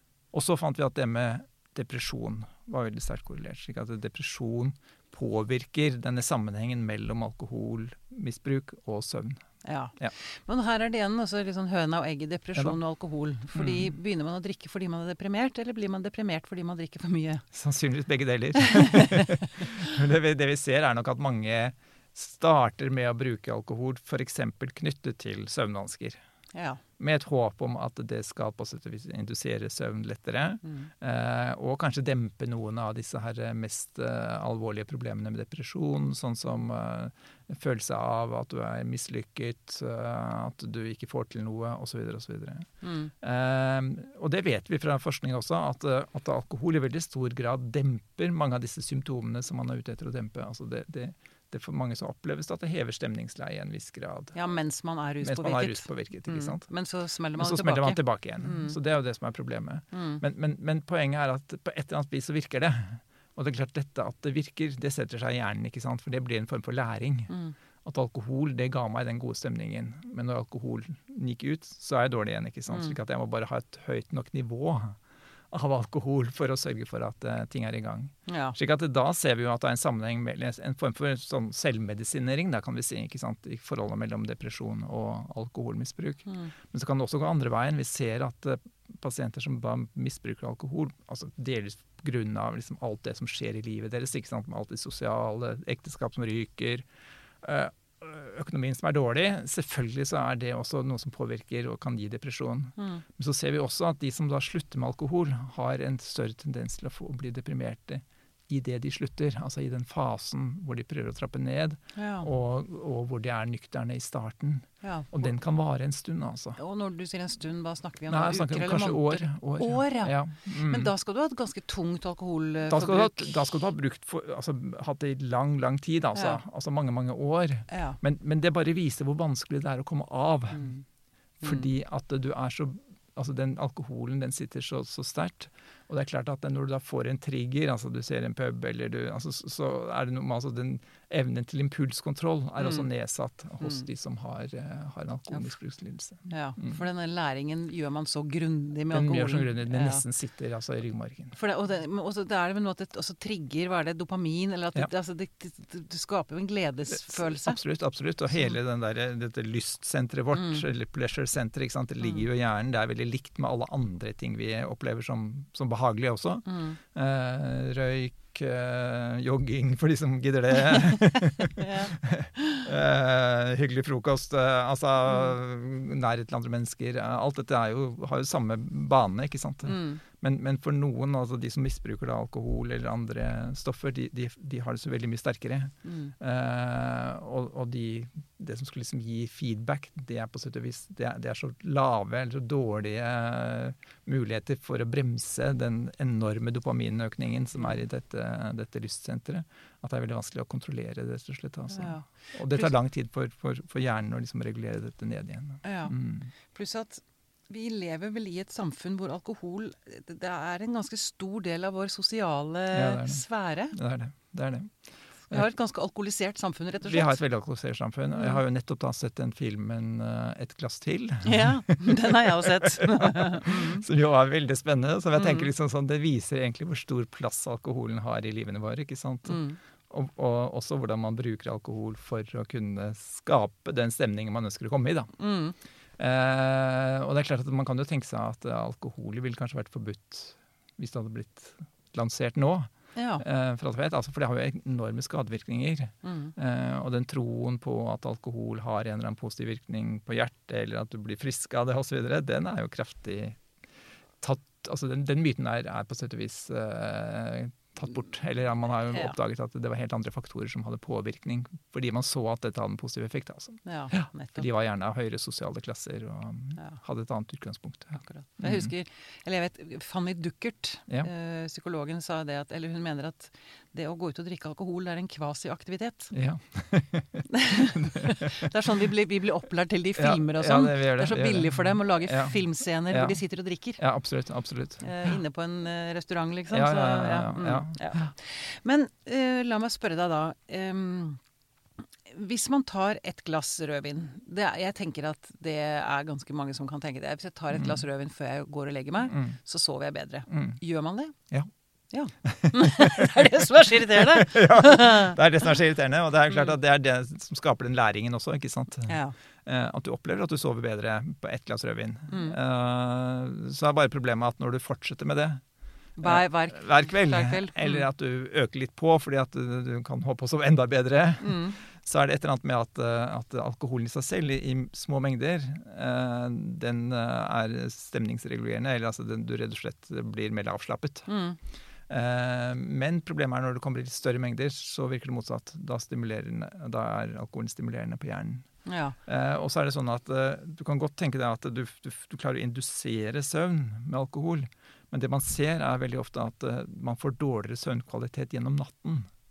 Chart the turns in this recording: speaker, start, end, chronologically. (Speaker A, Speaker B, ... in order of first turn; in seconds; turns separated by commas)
Speaker A: 0.3-9.4, Speaker B: 9.6-17.4, Speaker A: 13.6-13.9, Speaker A: 17.5-26.2, Speaker B: 18.7-19.4, Speaker B: 26.5-26.8, Speaker A: 27.0-42.7, Speaker B: 30.6-30.9, Speaker B: 42.8-43.1, Speaker A: 43.2-54.4, Speaker B: 54.3-58.8, Speaker A: 55.2-56.7, Speaker A: 57.4-67.3, Speaker B: 59.9-60.2, Speaker A: 67.8-75.0, Speaker B: 72.7-73.0, Speaker A: 75.5-96.9, Speaker B: 78.3-78.6, Speaker B: 86.3-86.5, Speaker A: 97.4-116.6, Speaker B: 102.8-103.0, Speaker B: 112.0-112.3, Speaker B: 114.8-115.3, Speaker B: 116.6-123.4, Speaker A: 118.1-120.9, Speaker A: 122.7-130.7, Speaker B: 126.2-126.4, Speaker B: 127.7-128.0, Speaker B: 130.5-130.8, Speaker B: 131.4-131.7, Speaker A: 131.4-146.8, Speaker B: 142.6-142.9, Speaker B: 143.6-143.9, Speaker B: 146.3-150.0, Speaker A: 148.9-151.3, Speaker B: 151.3-157.6, Speaker A: 156.9-206.3, Speaker B: 160.3-160.6, Speaker B: 166.5-166.8, Speaker B: 170.7-172.7, Speaker B: 179.7-180.0, Speaker B: 185.8-186.1, Speaker B: 201.7-202.7, Speaker B: 205.6-213.8, Speaker A: 212.7-215.5, Speaker B: 215.3-217.2, Speaker A: 216.8-235.1, Speaker B: 221.2-223.8, Speaker B: 225.2-225.5, Speaker B: 229.3-229.6, Speaker B: 235.2-235.6, Speaker A: 236.0-253.4, Speaker B: 242.9-243.2, Speaker B: 246.0-246.3, Speaker A: 254.2-268.7, Speaker B: 263.6-264.5, Speaker B: 267.9-276.1, Speaker A: 276.1-278.5, Speaker B: 277.3-283.8, Speaker A: 280.0-282.4, Speaker A: 282.9-283.2, Speaker A: 283.8-285.1, Speaker B: 284.8-291.2, Speaker A: 286.5-288.1, Speaker B: 292.1-301.1, Speaker A: 297.5-297.8, Speaker A: 299.1-299.4, Speaker A: 300.3-300.6, Speaker B: 301.9-305.2, Speaker A: 302.2-315.4, Speaker B: 308.9-309.1, Speaker B: 312.1-312.4, Speaker B: 316.0-317.9, Speaker A: 316.0-331.1, Speaker B: 321.2-321.6, Speaker B: 331.1-331.4, Speaker A: 331.9-338.5, Speaker B: 338.6-339.0, Speaker A: 339.1-349.1